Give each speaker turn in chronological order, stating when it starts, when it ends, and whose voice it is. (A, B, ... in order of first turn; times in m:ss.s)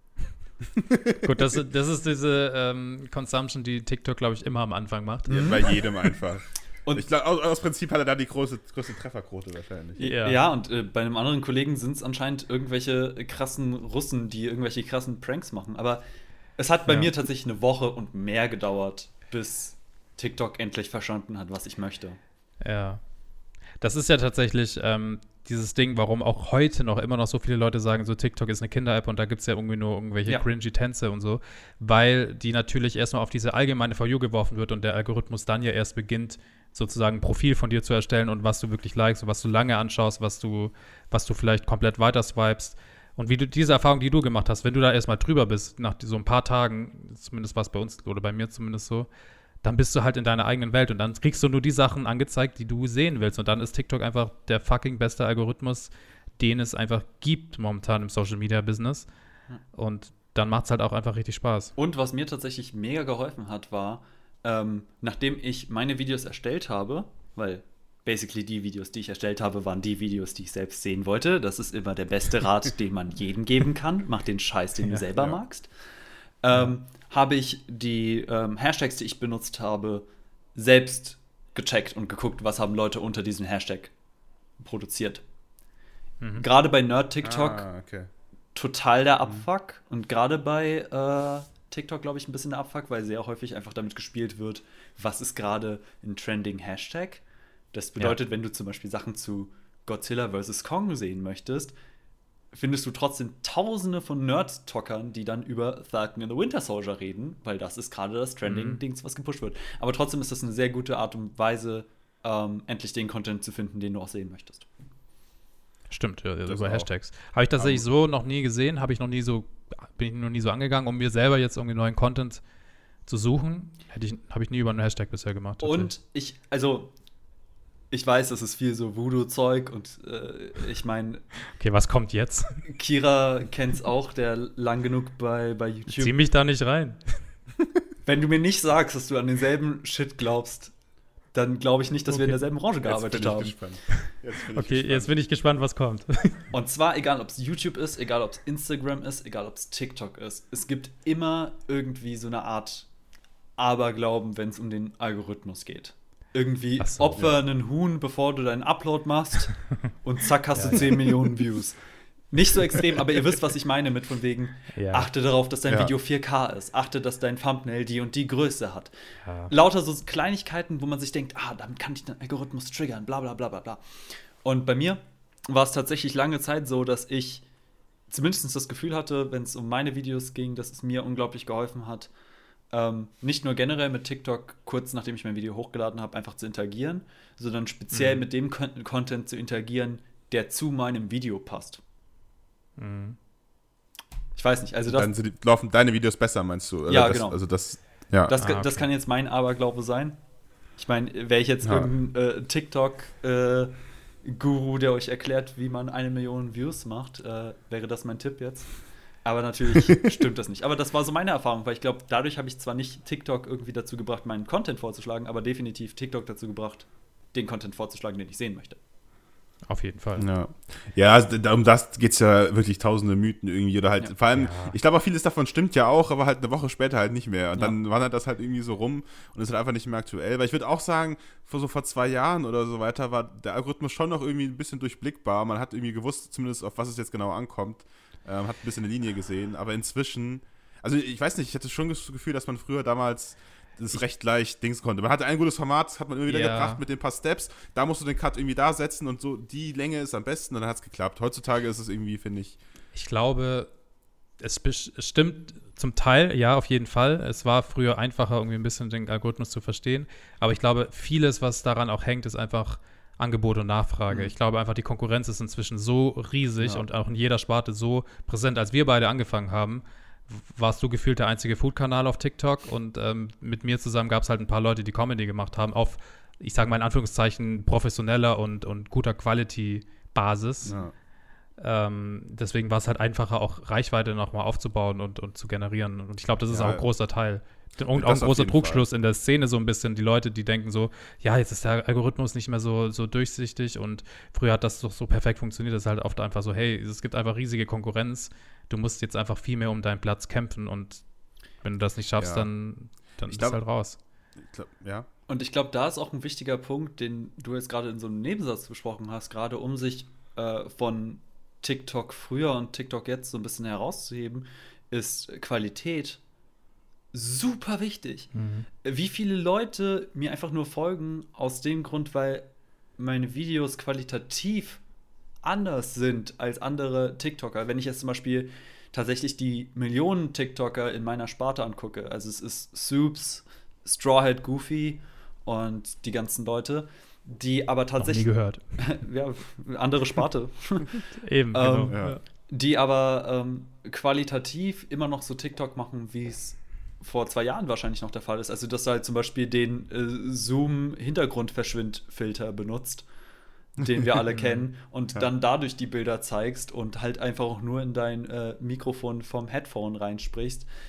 0:00.8-0:01.2 A
0:01.2-0:05.8 B
0:05.3-0:05.7 C
0:05.3-0:10.0 A
0:10.0-0:16.0 C
0:10.0-0:10.4 B
0:16.6-0:22.2 C
0:16.9-0:17.1 B
0:22.6-0:23.0 B
0:23.8-0:49.1 B
0:49.6-0:59.1 B
0:59.7-1:01.7 B
1:01.8-1:15.7 C
1:16.4-1:23.9 C
1:24.6-1:25.2 C
1:26.2-1:26.5 B
1:26.4-1:27.6 C
1:27.2-1:28.1 A
1:28.6-1:41.7 C
1:42.5-1:54.7 C
1:48.4-1:48.8 B
1:55.9-2:02.4 B
1:56.5-1:56.9 A
1:57.6-1:57.8 A
2:03.1-2:05.9 B
2:05.6-2:06.9 C
2:07.9-2:11.2 C
2:11.6-2:12.6 B
2:12.7-2:16.2 C
2:15.9-2:17.3 B
2:18.1-2:20.7 C
2:21.3-2:23.6 C
2:22.1-2:22.4 B
2:22.8-2:25.1 A
2:24.6-2:26.4 B
2:26.5-2:32.9 C
2:33.6-2:41.8 C
2:36.8-2:37.3 B
2:40.6-2:40.8 B
2:42.3-2:48.9 C
2:44.7-2:45.1 B
2:49.2-2:49.5 B
2:49.5-2:53.8 C
2:54.4-2:57.4 C
2:58.1-3:02.1 C
3:02.7-3:11.8 C
3:07.9-3:08.2 B
3:12.8-3:13.2 B
3:14.4-3:15.1 C
3:14.9-3:18.4 A
3:16.9-3:17.4 C
3:18.3-3:20.2 C
3:18.4-3:18.9 B
3:20.8-3:38.8 C
3:21.6-3:21.9 A
3:39.7-3:40.2 B
3:40.2-4:12.6 A
3:44.3-3:44.8 B
4:06.3-4:06.8 B
4:12.9-4:13.7 B
4:14.4-4:40.8 B
4:40.7-4:40.9 A
4:41.6-5:01.0 B
4:46.5-4:46.9 A
4:47.9-4:48.8 A
5:01.6-5:04.0 B
5:02.2-5:02.5 A
5:03.2-5:03.6 A
5:04.5-5:05.1 A
5:05.3-5:16.2 C
5:17.1-5:18.3 C
5:18.3-5:18.7 B
5:18.8-5:22.5 C
5:23.0-5:24.8 C
5:25.4-5:53.1 C
5:38.0-5:38.9 B
5:41.2-5:42.2 B
5:41.9-5:42.2 A
5:53.8-6:00.7 C
5:54.3-5:54.6 B